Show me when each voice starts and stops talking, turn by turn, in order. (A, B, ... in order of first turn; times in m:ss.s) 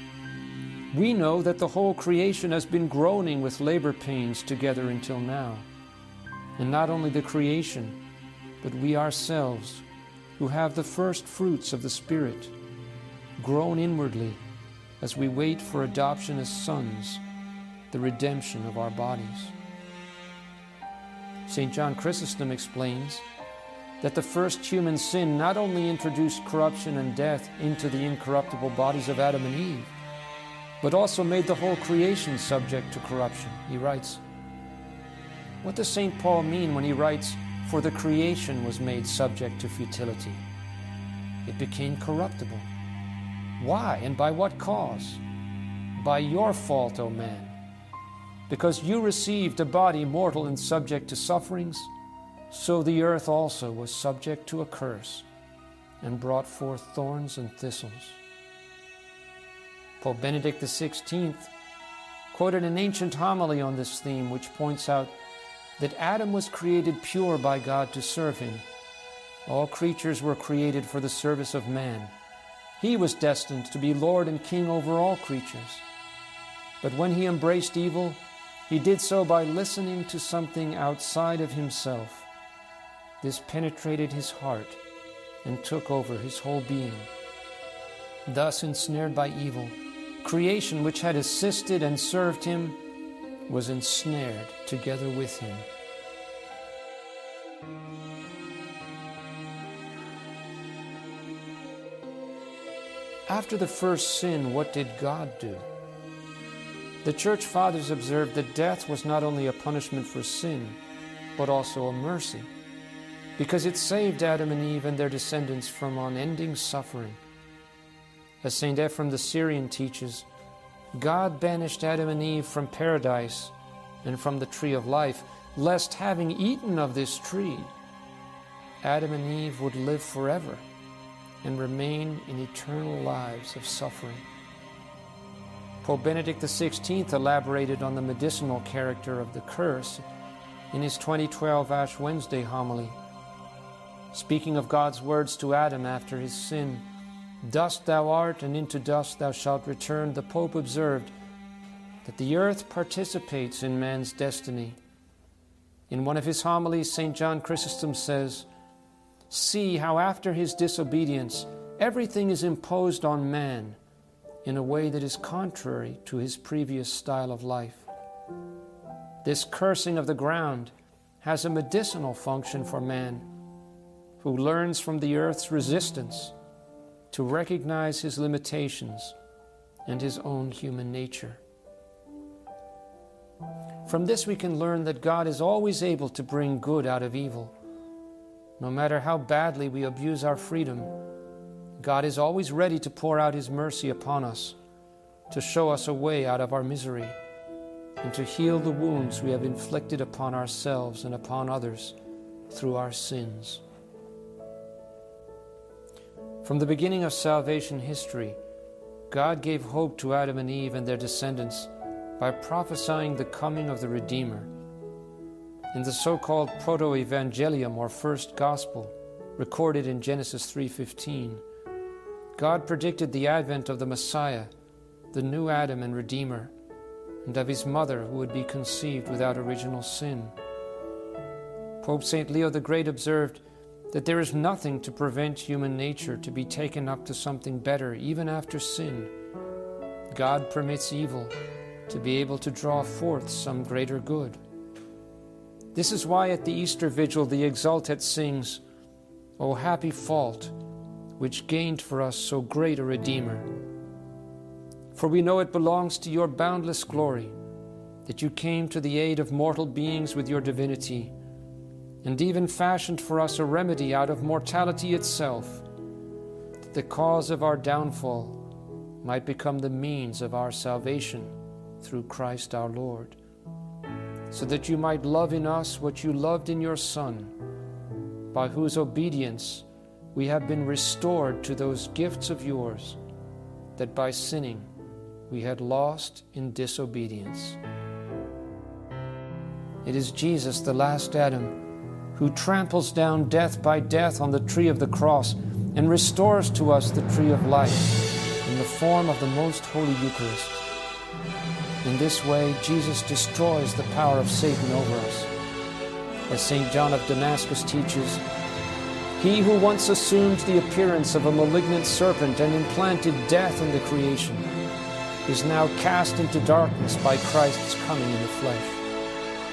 0:00.9-0:05.6 A
0:06.6-0:08.0 A
0:08.6-0:09.8 A
0:10.4-0:12.5 A
0:13.4-0:14.4 A
0:15.0-0:17.2 A
0:17.9-0:19.5 A
0:21.5-0:23.2 A
0:24.0-0:29.9 A
0:30.8-0:34.2 A
0:35.6-0:40.4 A
0:41.4-0:42.7 A
0:43.6-0:45.2 A
0:46.0-0:47.5 A
0:48.5-0:51.9 A
0:52.5-0:55.3 A
0:56.0-0:58.2 A
1:00.0-1:01.5 A
1:02.3-1:05.2 A
1:05.8-1:08.6 A
1:09.4-1:12.1 A
1:12.8-1:15.8 A
1:16.8-1:22.3 A
1:23.2-1:24.8 A
1:25.4-1:27.1 A
1:28.2-1:32.8 A
1:33.5-1:35.7 A
1:43.3-1:45.6 A
1:47.0-1:50.8 A
1:51.4-1:52.5 A
1:53.4-1:57.2 A
1:58.4-2:00.2 A
2:00.9-2:07.7 A
2:08.8-2:10.6 A
2:11.4-2:14.2 A
2:15.8-2:20.0 A
2:20.7-2:23.0 A
2:24.1-2:26.8 A
2:27.4-2:31.1 A
2:32.0-2:34.8 A
2:35.9-2:38.4 A
2:39.3-2:43.8 A
2:44.4-2:47.9 A
2:49.2-2:53.3 A
2:54.2-2:56.3 A
2:57.1-2:59.1 A
2:59.8-3:01.4 A
3:03.8-3:07.5 A
3:08.6-3:10.9 A
3:11.8-3:14.6 A
3:15.3-3:17.2 A
3:18.0-3:21.9 A
3:22.5-3:23.6 A
3:26.4-3:28.4 A
3:29.1-3:34.5 A
3:35.7-3:41.4 A
3:42.4-3:44.5 A
3:45.1-3:46.5 A
3:47.2-3:50.3 A
3:51.8-3:59.1 A
4:00.1-4:01.3 A
4:01.9-4:04.4 A
4:05.7-4:08.6 A
4:09.4-4:10.5 A
4:11.2-4:13.5 A
4:14.9-4:17.3 A
4:18.0-4:21.1 A
4:22.0-4:25.6 A
4:26.7-4:28.4 A
4:29.0-4:33.2 A
4:34.3-4:37.3 A
4:38.3-4:43.0 A
4:43.8-4:44.7 A
4:45.3-4:47.6 A
4:49.8-4:51.6 A
4:52.1-5:00.6 A
5:01.8-5:05.3 A
5:06.3-5:08.2 A
5:09.2-5:14.5 A
5:15.2-5:18.8 A